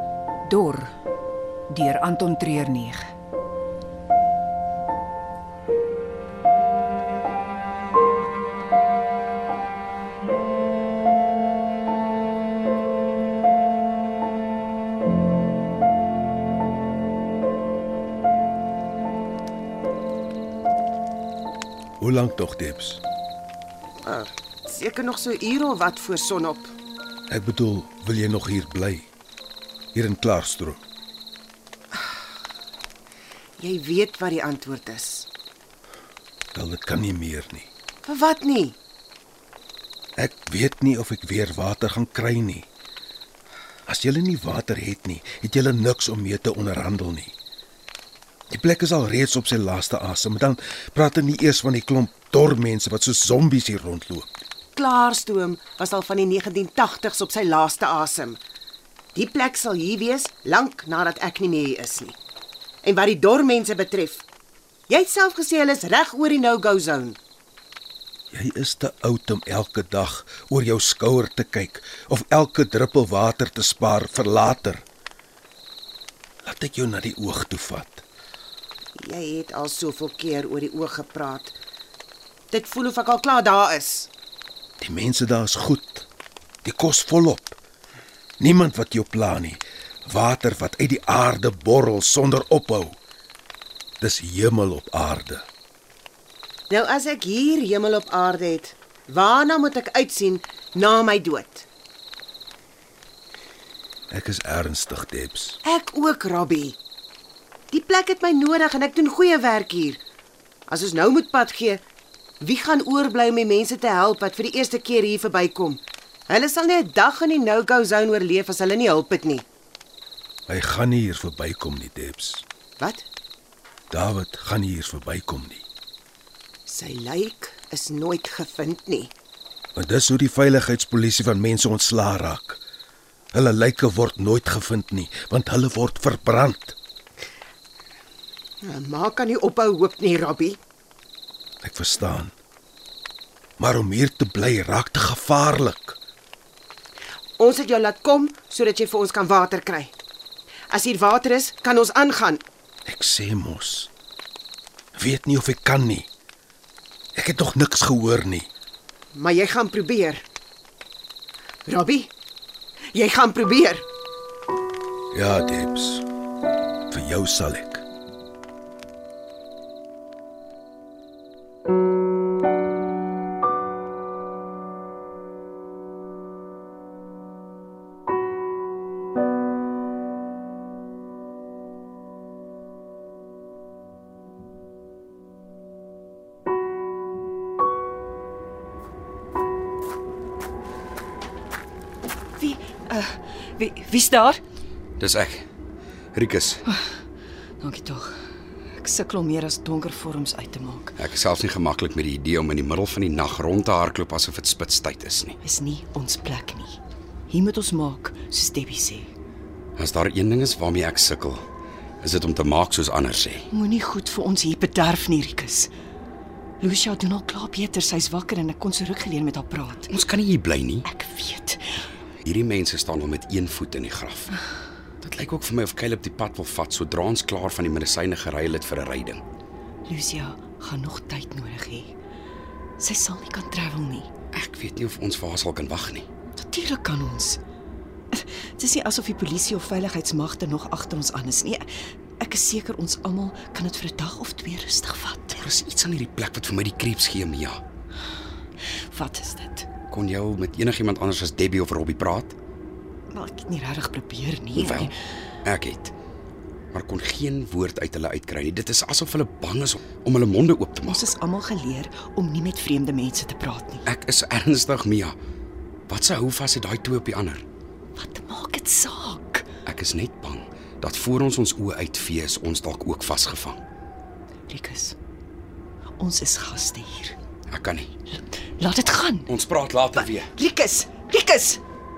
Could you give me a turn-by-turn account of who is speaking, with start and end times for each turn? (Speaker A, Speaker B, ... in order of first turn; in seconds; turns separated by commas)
Speaker A: 0.5-0.9, Speaker A: 1.7-3.1, Speaker B: 22.0-23.0, Speaker C: 24.0-26.7, Speaker B: 27.3-29.1, Speaker B: 29.9-30.8, Speaker C: 33.6-35.3, Speaker B: 36.5-37.7, Speaker C: 38.0-38.8, Speaker B: 40.2-42.7, Speaker B: 43.9-47.3, Speaker B: 48.5-54.4, Speaker C: 54.7-58.4, Speaker C: 59.1-62.1, Speaker C: 62.8-64.2, Speaker C: 64.9-67.2, Speaker B: 68.3-74.8, Speaker B: 76.4-78.0, Speaker C: 79.0-81.5, Speaker C: 82.5-84.1, Speaker B: 84.8-86.1, Speaker B: 86.6-87.6, Speaker B: 88.4-93.0, Speaker B: 94.0-95.5, Speaker C: 96.7-101.7, Speaker B: 104.1-105.6, Speaker C: 105.6-106.8, Speaker C: 107.7-110.0, Speaker C: 110.7-111.8, Speaker C: 112.4-119.4, Speaker B: 120.5-122.4, Speaker C: 122.8-123.0, Speaker B: 123.9-125.6, Speaker C: 126.7-129.1, Speaker B: 129.8-132.6, Speaker B: 133.3-136.8, Speaker C: 138.6-140.6, Speaker B: 141.6-142.3, Speaker B: 143.6-146.0, Speaker C: 147.4-149.9, Speaker C: 150.7-152.4, Speaker B: 152.8-153.9, Speaker B: 154.9-156.1, Speaker B: 157.1-158.5, Speaker C: 159.1-160.2, Speaker C: 161.7-162.1, Speaker C: 162.9-163.8, Speaker B: 165.1-166.1, Speaker B: 166.9-167.8, Speaker D: 192.4-194.4, Speaker E: 195.0-195.4, Speaker E: 196.1-196.6, Speaker D: 196.7-197.0, Speaker D: 197.6-198.2, Speaker D: 198.8-200.9, Speaker E: 201.0-205.4, Speaker D: 205.4-206.8, Speaker D: 207.3-209.1, Speaker E: 209.8-211.5, Speaker E: 212.0-213.5, Speaker D: 213.5-215.7, Speaker D: 216.6-219.9, Speaker E: 219.9-220.9, Speaker D: 220.8-221.8, Speaker E: 222.2-224.3, Speaker E: 225.0-229.2, Speaker D: 229.8-231.9, Speaker D: 232.8-234.1, Speaker E: 234.3-236.1, Speaker D: 236.3-237.4, Speaker D: 238.1-241.7, Speaker D: 242.2-245.4, Speaker E: 245.3-247.6, Speaker D: 248.7-249.7, Speaker E: 249.9-252.3, Speaker D: 253.1-254.9, Speaker E: 254.5-254.9, Speaker E: 255.4-255.9, Speaker E: 256.7-261.1, Speaker D: 260.8-263.8, Speaker E: 263.9-265.1, Speaker E: 265.9-267.4, Speaker D: 267.9-269.4, Speaker E: 269.6-273.6, Speaker D: 274.5-274.9, Speaker D: 276.0-277.1, Speaker E: 277.5-277.9, Speaker D: 278.1-279.3, Speaker E: 279.3-280.3, Speaker D: 279.9-281.6